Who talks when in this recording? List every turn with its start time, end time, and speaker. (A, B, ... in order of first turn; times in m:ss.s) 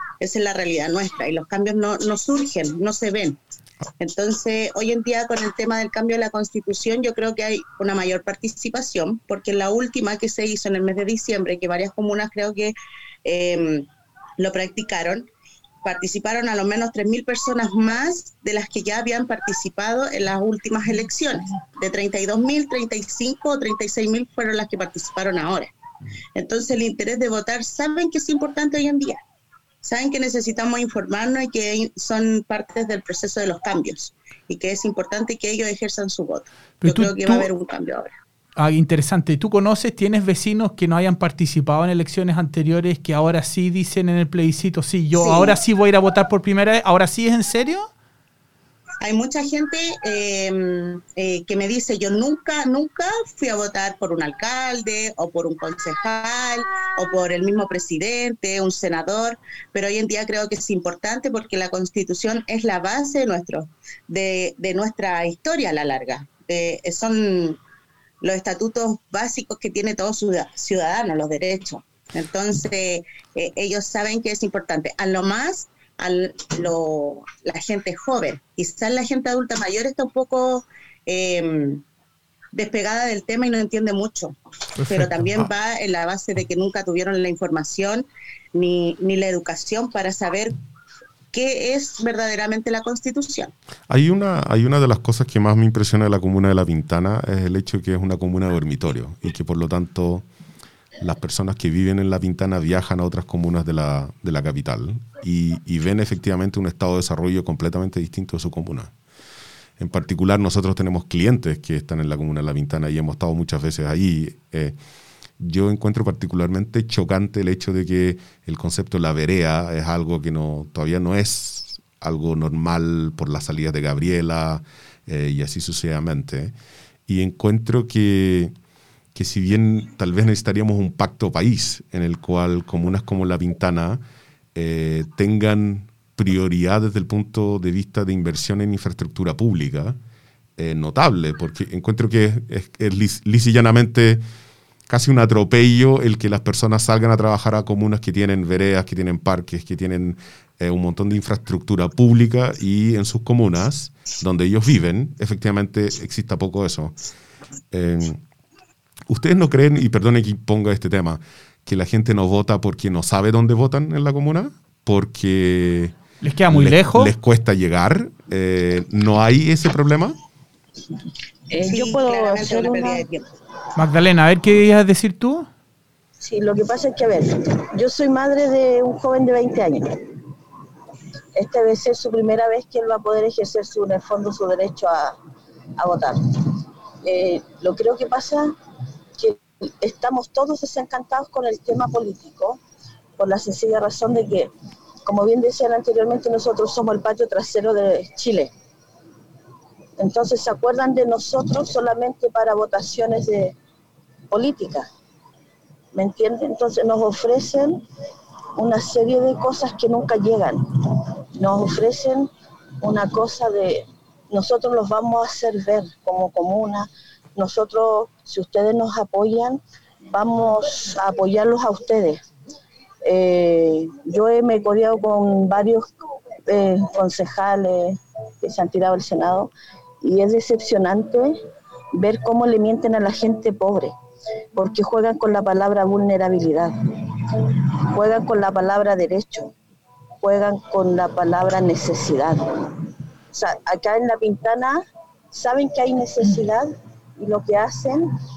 0:00.2-0:03.4 A
0:04.0-0:13.9 A
0:14.4-0:15.3 A
0:15.8-0:25.7 A
0:26.4-0:29.2 A
0:29.8-0:38.1 A
0:36.8-0:37.5 B
0:38.6-0:47.9 B
0:45.2-0:45.6 A
0:49.0-1:07.6 A
1:08.2-1:21.8 A
1:22.5-1:30.6 A
1:24.8-1:25.5 B
1:31.3-1:33.5 A
1:33.9-1:40.2 C
1:41.0-1:48.9 C
1:49.8-1:54.8 C
1:55.4-2:06.5 C
2:07.1-2:08.5 C
2:09.1-2:14.0 C
2:14.5-2:20.0 C
2:20.6-2:24.2 C
2:24.9-2:37.0 C
2:37.7-2:38.2 C
2:39.1-2:50.2 C
2:46.2-2:47.1 B
2:51.5-2:53.2 A
2:51.5-2:53.0 D
2:53.8-2:55.5 B
2:56.2-3:00.0 D
3:01.4-3:05.2 D
3:05.8-3:06.5 D
3:07.0-3:08.5 D
3:09.2-3:12.6 D
3:13.2-3:14.5 D
3:15.0-3:18.5 D
3:20.0-3:23.5 D
3:24.3-3:24.9 D
3:25.9-3:27.8 D
3:28.6-3:32.3 D
3:32.8-3:42.2 D
3:43.0-3:45.9 D
3:46.5-3:51.3 D
3:51.9-3:53.9 D
3:54.5-3:59.5 D
4:00.2-4:02.7 D
4:03.3-4:04.8 D
4:05.3-4:08.0 D